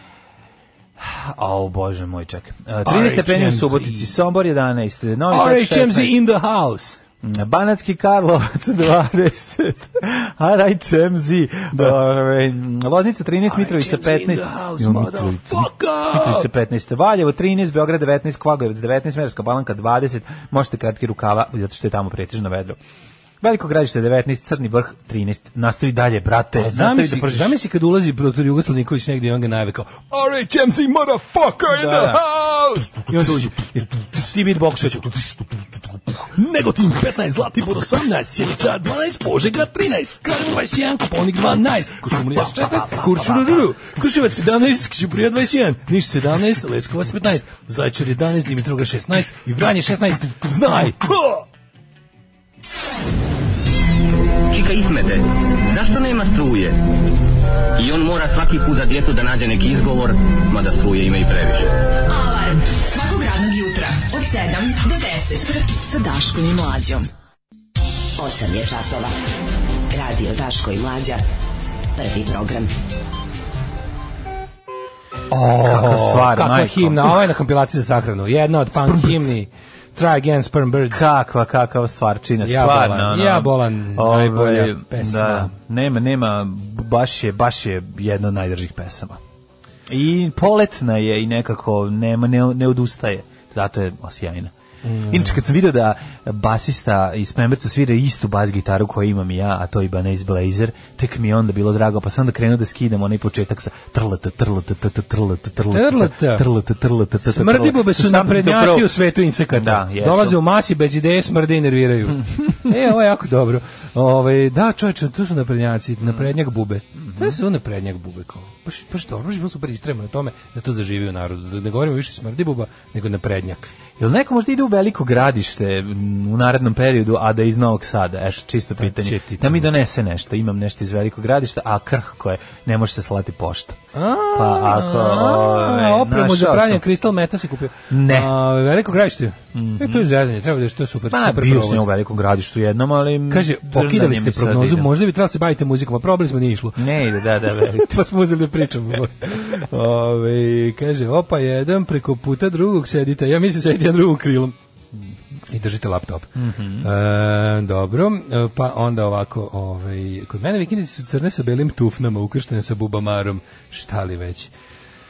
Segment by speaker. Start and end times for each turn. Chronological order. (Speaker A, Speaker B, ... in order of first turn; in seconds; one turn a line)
Speaker A: 1.0-6.2
Speaker B: 2.8-4.1
Speaker B: 5.3-7.0
Speaker A: 7.2-22.8
Speaker B: 13.5-16.5
Speaker A: 23.4-27.5
Speaker B: 26.6-35.4
Speaker A: 31.7-32.2
Speaker A: 33.1-33.4
Speaker B: 36.1-51.4
Speaker C: 54.5-56.8
Speaker C: 57.8-61.8
Speaker D: 62.1-67.1
Speaker E: 68.2-69.1
Speaker E: 69.9-71.2
Speaker E: 71.9-72.7
Speaker B: 75.3-81.0
Speaker A: 75.6-77.3
Speaker A: 78.7-79.3
Speaker A: 80.9-89.2
Speaker B: 82.4-85.5
Speaker A: 89.9-94.5
Speaker B: 94.8-95.4
Speaker A: 95.1-109.0
Speaker B: 105.7-106.5
Speaker B: 107.2-123.7
Speaker A: 109.5-110.4
Speaker A: 117.0-117.4
Speaker A: 124.0-133.8
Speaker B: 128.8-129.7
Speaker B: 133.9-141.9
Speaker A: 134.3-136.8
Speaker A: 137.9-138.3
Speaker A: 139.5-140.1
Speaker A: 141.1-144.9
Speaker B: 143.3-146.9
Speaker A: 146.8-147.9
Speaker B: 147.5-154.5
Speaker B: 155.5-156.3
Speaker A: 156.3-156.9
Speaker B: 156.8-164.5